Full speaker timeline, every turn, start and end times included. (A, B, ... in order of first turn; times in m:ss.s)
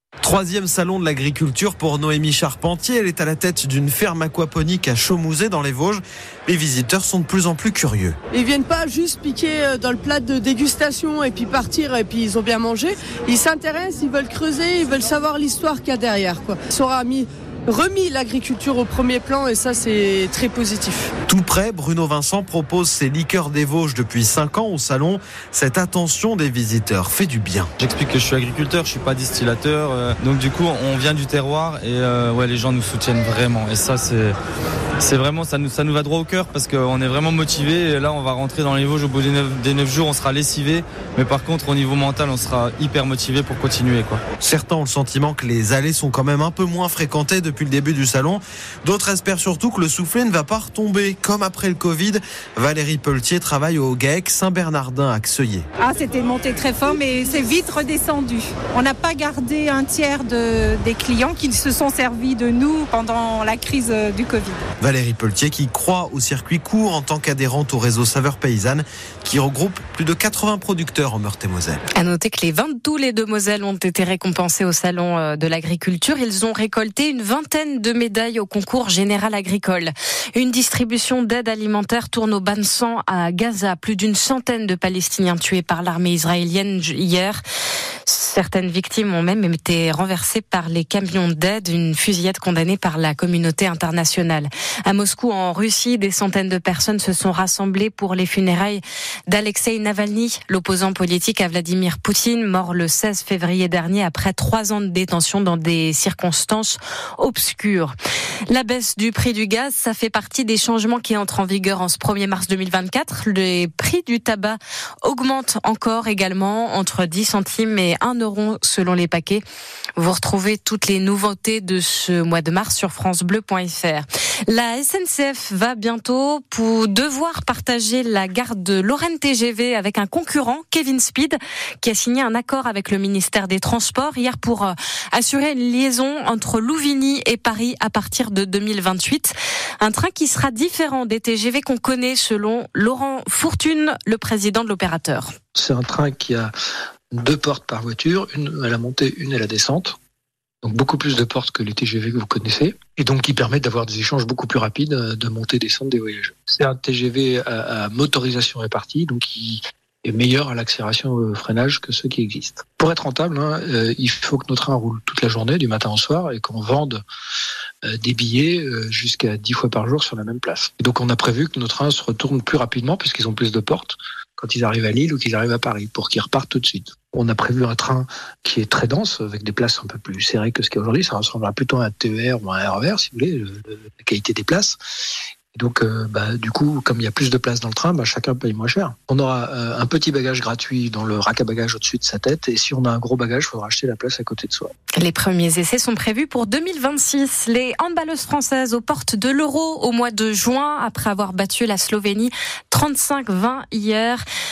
0:00.2-0:08.2 A
0:08.3-0:21.1 B
0:21.3-0:27.7 A
0:27.8-0:34.4 C
0:35.0-0:44.2 C
0:44.4-0:55.6 A
0:55.8-1:04.6 D
1:04.8-1:11.8 A
1:11.9-1:27.4 E
1:28.1-1:47.9 E
1:48.5-1:59.4 E
2:00.0-2:25.3 E
2:25.5-2:26.5 F
2:27.1-2:30.0 F
2:30.6-2:47.0 F
2:47.9-3:04.8 F
3:05.5-3:14.7 F
3:15.0-3:24.2 E